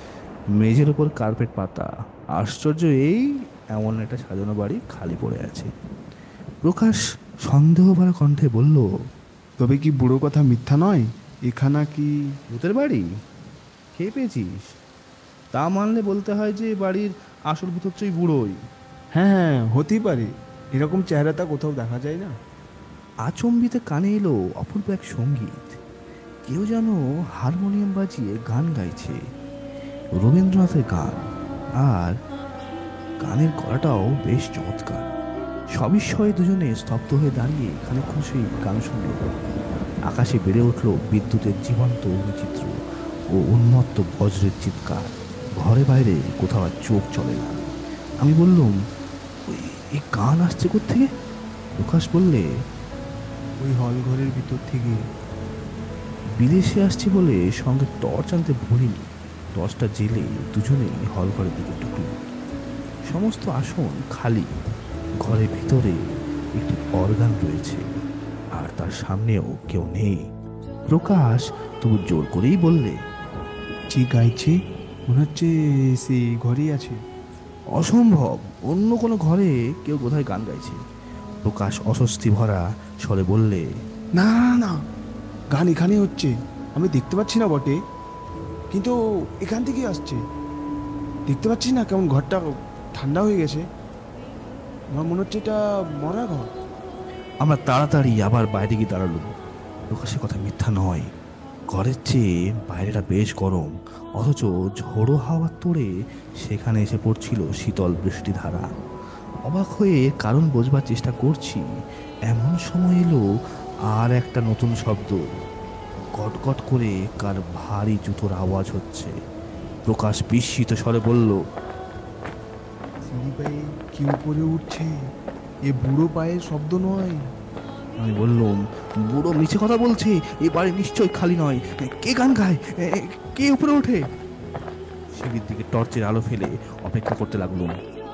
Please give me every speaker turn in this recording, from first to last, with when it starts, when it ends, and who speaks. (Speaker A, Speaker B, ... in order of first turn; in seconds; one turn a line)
Speaker A: 0.6-5.7
Speaker A: 6.6-8.9
Speaker B: 9.6-12.1
Speaker A: 12.5-13.1
Speaker A: 13.9-14.6
Speaker A: 15.5-18.6
Speaker B: 19.1-22.3
Speaker A: 23.3-25.8
Speaker A: 26.5-29.2
Speaker A: 30.2-31.2
Speaker A: 31.8-32.1
Speaker A: 33.2-35.1
Speaker A: 35.8-39.2
Speaker A: 40.1-42.8
Speaker A: 43.4-45.1
Speaker A: 45.6-47.5
Speaker A: 48.2-48.7
Speaker A: 49.5-51.1
Speaker A: 51.8-52.5
Speaker B: 53.6-55.0
Speaker A: 56.4-59.0
Speaker A: 59.6-62.1
Speaker A: 63.1-64.5
Speaker A: 65.2-66.0
Speaker A: 66.6-67.8
Speaker A: 68.6-70.2
Speaker A: 70.9-73.0
Speaker B: 73.9-74.5
Speaker B: 75.1-77.0
Speaker A: 77.8-80.8
Speaker A: 81.5-83.7
Speaker B: 84.2-84.8
Speaker B: 85.5-87.8
Speaker B: 88.7-90.2
Speaker B: 91.3-93.6
Speaker B: 95.0-96.5
Speaker A: 97.4-99.3
Speaker A: 99.9-101.1
Speaker A: 101.7-105.9
Speaker A: 106.4-108.7
Speaker A: 109.5-111.6
Speaker A: 112.3-113.2
Speaker A: 113.9-115.2
Speaker A: 116.2-119.1
Speaker A: 119.9-121.4
Speaker B: 123.1-124.9
Speaker B: 125.7-127.2
Speaker A: 128.0-134.0
Speaker A: 135.2-137.8